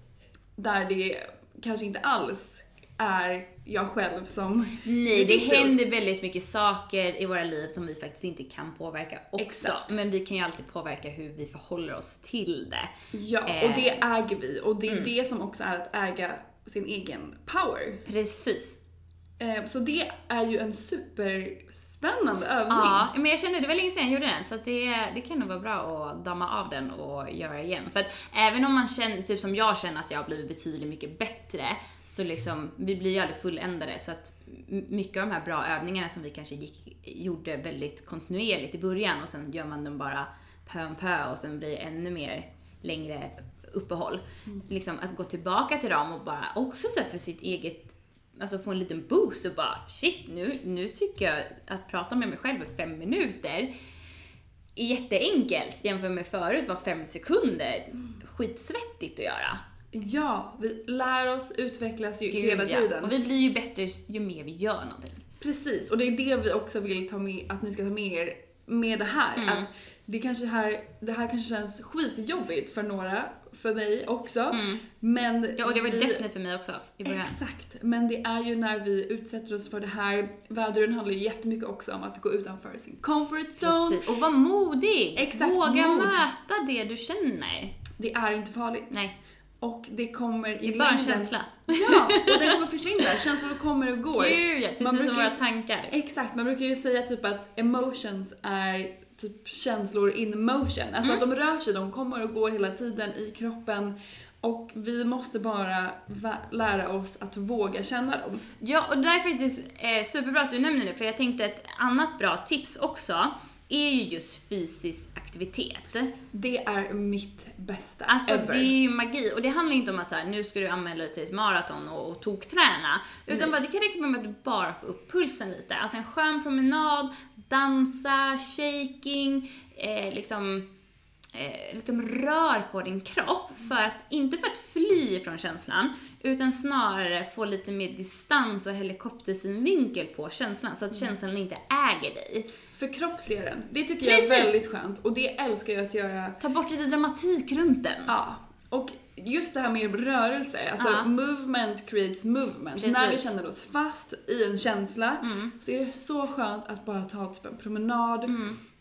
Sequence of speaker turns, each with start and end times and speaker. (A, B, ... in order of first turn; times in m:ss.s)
0:00.6-0:05.8 A
0:04.8-0:12.9 B
0:09.4-0:10.0 A
0:13.1-0:18.0 A
0:13.5-0:14.0 B
0:14.9-0:15.1 B
0:18.1-0:18.8 B
0:19.4-0:23.1 A
0:22.7-0:53.7 B
0:54.8-0:59.6 B
0:59.9-1:03.2 A
1:02.3-1:05.2 B
1:05.4-1:16.2 A
1:09.4-1:09.7 B
1:14.5-1:14.8 B
1:15.6-1:17.4 B
1:17.0-1:24.0 A
1:23.6-1:27.8 B
1:25.2-1:26.2 A
1:28.0-1:29.0 A
1:28.9-1:29.2 B
1:29.6-1:48.5 A
1:30.6-1:32.5 B
1:34.2-1:35.9 B
1:48.6-1:56.1 B
1:56.3-1:58.8 A
1:58.1-2:10.7 B
2:11.3-2:22.5 B
2:22.8-2:26.4 A
2:24.0-2:24.6 B
2:26.4-2:28.1 B
2:28.1-2:38.4 A
2:30.8-2:31.1 B
2:32.8-2:33.3 B
2:35.2-2:35.5 B
2:38.3-2:38.6 B